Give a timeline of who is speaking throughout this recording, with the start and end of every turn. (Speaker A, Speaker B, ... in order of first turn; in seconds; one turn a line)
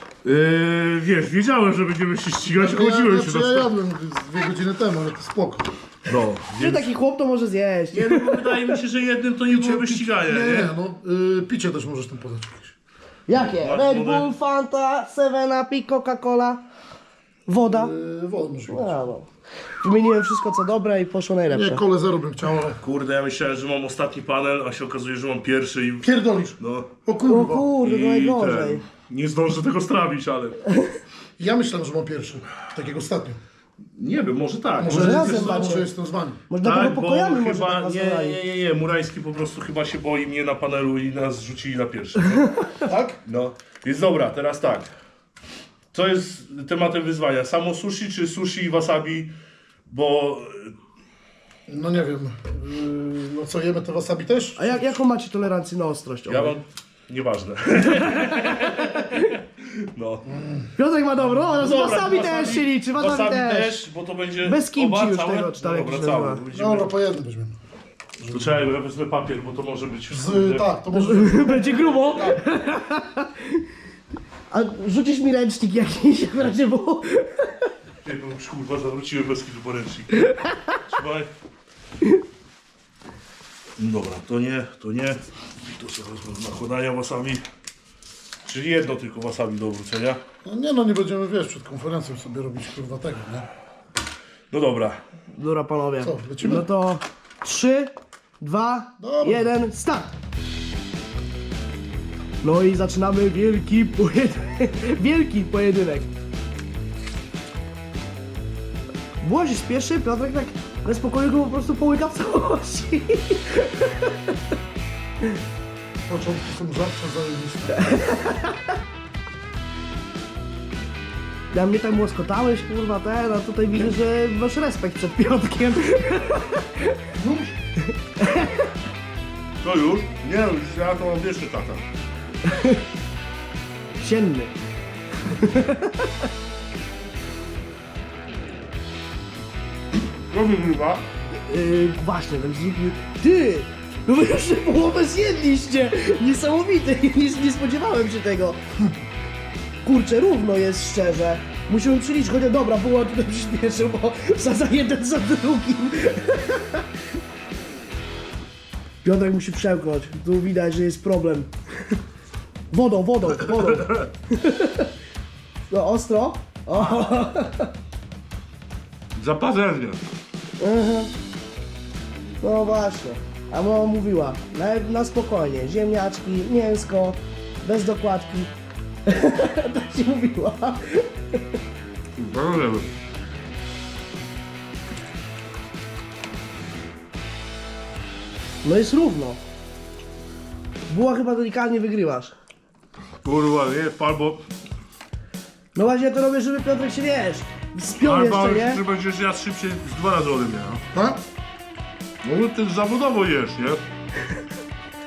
Speaker A: 0.2-3.7
Speaker B: 2.5-5.7
Speaker A: 6.1-6.9
Speaker C: 6.6-8.7
Speaker A: 7.9-10.7
Speaker B: 9.5-12.7
Speaker C: 13.3-16.6
Speaker A: 13.3-14.3
Speaker C: 17.5-17.9
Speaker B: 17.7-18.9
Speaker C: 18.7-19.3
Speaker C: 19.8-21.8
Speaker B: 21.5-22.8
Speaker A: 22.8-26.9
Speaker B: 26.0-27.7
Speaker C: 27.3-28.8
Speaker A: 27.8-30.6
Speaker B: 31.4-33.4
Speaker A: 34.0-35.8
Speaker B: 34.8-36.4
Speaker C: 34.9-35.9
Speaker C: 36.5-38.4
Speaker A: 36.6-42.7
Speaker B: 42.9-43.2
Speaker A: 43.2-44.9
Speaker A: 45.9-49.3
Speaker A: 49.9-50.7
Speaker B: 51.7-55.0
Speaker C: 54.6-56.6
Speaker A: 56.3-60.3
Speaker C: 58.1-58.9
Speaker B: 60.3-60.7
Speaker C: 60.8-63.9
Speaker A: 61.3-66.9
Speaker C: 64.4-66.4
Speaker B: 66.5-67.6
Speaker A: 68.2-70.7
Speaker B: 68.3-68.6
Speaker B: 70.1-72.4
Speaker C: 70.9-73.4
Speaker C: 74.5-77.7
Speaker A: 78.0-81.3
Speaker A: 83.8-87.4
Speaker A: 88.5-90.2
Speaker B: 90.4-93.5
Speaker A: 94.5-95.0
Speaker C: 95.3-100.1
Speaker B: 96.0-96.7
Speaker B: 99.0-99.5
Speaker C: 102.4-106.1
Speaker C: 109.2-114.1
Speaker B: 116.1-117.9
Speaker C: 117.8-118.6
Speaker C: 121.5-126.7
Speaker B: 127.2-127.5
Speaker C: 128.2-128.7
Speaker A: 129.6-131.8
Speaker C: 132.5-132.8
Speaker C: 134.0-134.5
Speaker C: 135.3-136.1
Speaker A: 140.3-141.0
Speaker C: 141.5-148.6
Speaker C: 149.8-156.8
Speaker C: 159.0-162.0
Speaker C: 162.7-164.9
Speaker A: 163.6-164.1
Speaker C: 165.7-167.7
Speaker A: 166.7-167.1
Speaker A: 169.2-170.0
Speaker C: 170.6-171.1
Speaker C: 172.4-178.5
Speaker C: 179.1-181.4
Speaker A: 182.2-182.9
Speaker C: 188.6-189.4
Speaker C: 190.9-192.3
Speaker A: 193.2-194.4
Speaker C: 195.8-198.8
Speaker A: 198.0-200.8
Speaker B: 200.9-201.2
Speaker A: 202.2-203.8